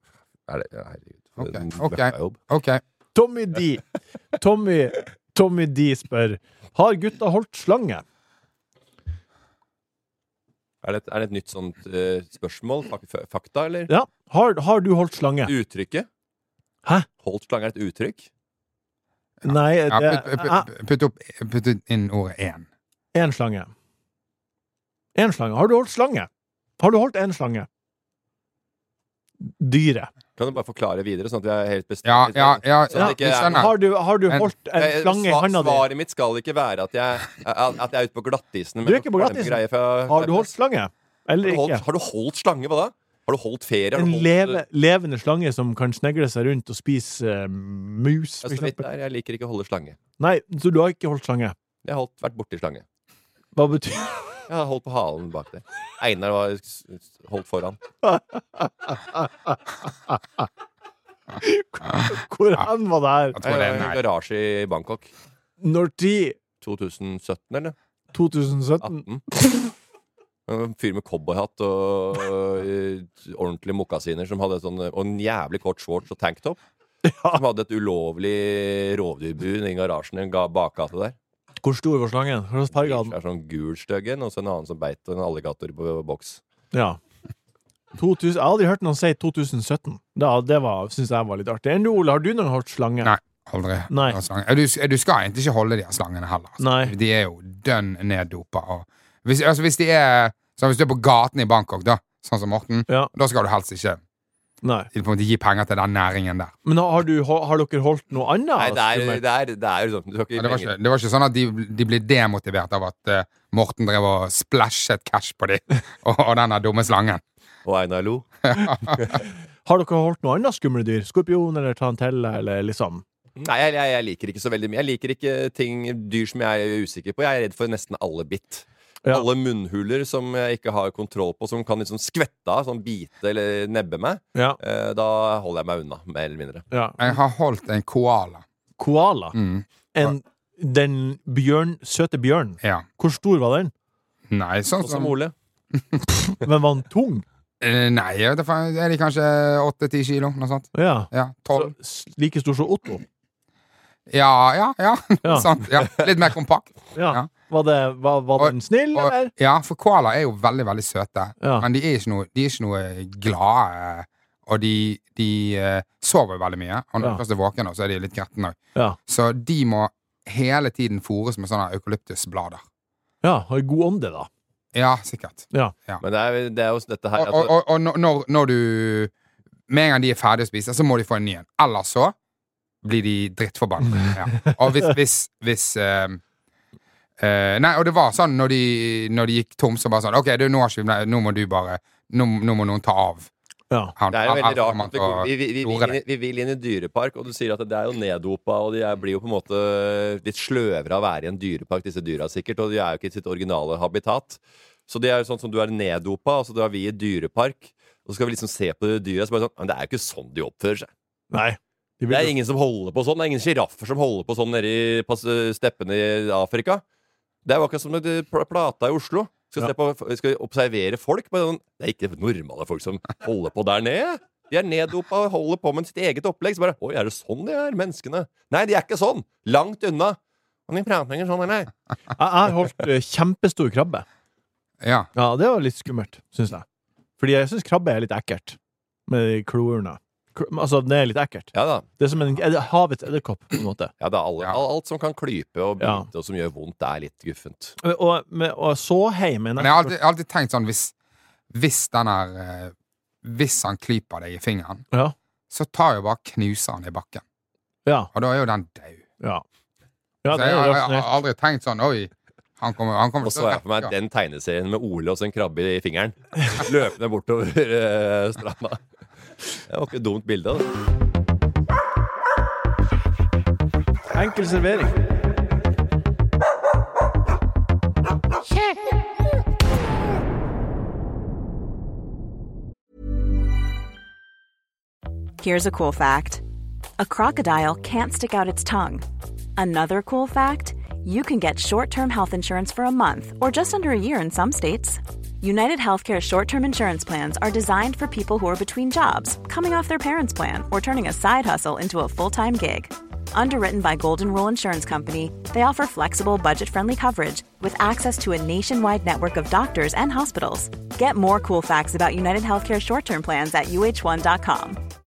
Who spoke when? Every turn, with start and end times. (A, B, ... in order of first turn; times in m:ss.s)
0:00.5-0:02.4 A
0:01.4-0:02.8 B
0:03.1-0:03.8 C
0:04.3-0:08.0 C
0:10.8-0:13.9 A
0:13.9-0:15.5 C
0:15.4-0:16.1 A
0:17.2-0:18.3 A
0:19.4-0:22.7 B
0:19.4-0:20.7 C
0:23.1-0:23.7 C
0:25.1-0:27.7 C
0:29.4-0:30.1 C
0:30.4-0:33.7 A
0:32.0-0:33.7 B
0:32.9-0:35.8 C
0:34.7-0:40.5 A
0:38.8-0:41.8 C
0:41.4-0:44.6 A
0:44.0-0:48.8 C
0:48.4-0:50.0 A
0:50.2-0:51.5 C
0:51.8-0:52.8 A
0:53.5-0:54.4 C
0:54.5-0:57.8 A
0:58.0-1:00.5 C
1:01.4-1:03.4 C
1:03.4-1:04.0 B
1:03.4-1:05.1 A
1:05.6-1:06.4 C
1:06.6-1:07.7 A
1:08.1-1:09.7 C
1:08.8-1:09.2 A
1:10.5-1:16.6 A
1:17.0-1:17.4 C
1:17.3-1:21.2 A
1:21.6-1:23.1 C
1:22.7-1:26.4 A
1:26.7-1:27.0 C
1:28.0-1:33.1 C
1:33.0-1:44.0 B
1:33.9-1:34.2 C
1:36.6-1:36.9 C
1:44.6-1:44.9 C
1:44.9-1:46.5 B
1:46.6-1:49.2 C
1:48.6-1:50.7 A
1:50.4-1:57.2 B
1:57.6-1:58.3 A
1:58.5-1:59.0 B
1:59.6-2:03.0 C
2:03.4-2:16.6 A
2:16.7-2:17.1 C
2:17.0-2:18.4 B
2:18.8-2:19.4 C
2:19.3-2:20.1 B
2:19.9-2:23.7 C
2:24.3-2:25.1 B
2:24.8-2:25.3 A
2:25.8-2:26.0 B
2:26.4-2:27.2 C
2:27.6-2:31.7 B
2:30.7-2:33.0 C
2:34.1-2:37.3 B
2:35.2-2:35.5 C
2:37.0-2:39.3 C
2:38.4-2:52.6 B
2:41.4-2:41.7 C
2:53.2-2:54.3 C
2:54.7-2:56.0 B
2:56.0-2:57.5 A
2:57.2-2:59.1 B
2:59.7-3:02.1 B
3:02.8-3:06.2 B
3:04.0-3:04.5 C
3:07.2-3:13.3 B
3:14.0-3:16.0 B
3:14.1-3:30.9 A
3:31.3-3:32.3 C
3:32.1-3:36.8 A
3:37.4-3:50.2 A
3:50.7-3:51.7 A
3:52.2-3:54.0 C
3:54.8-3:55.1 B
3:55.2-3:56.6 C
3:57.2-4:03.9 C
4:01.5-4:01.9 A
4:04.0-4:07.8 A
4:05.8-4:06.1 C
4:07.8-4:09.9 C
4:09.6-4:10.9 B
4:11.5-4:12.7 B
4:13.2-4:14.8 B
4:15.5-4:17.2 B
4:17.8-4:18.1 C
4:18.1-4:19.0 B
4:20.2-4:21.1 C
4:20.3-4:23.9 B
4:23.2-4:28.8 A
4:29.6-4:30.7 A
4:34.1-4:35.0 C
4:45.4-4:46.4 D
4:47.0-4:49.0 D
4:49.6-5:14.8 D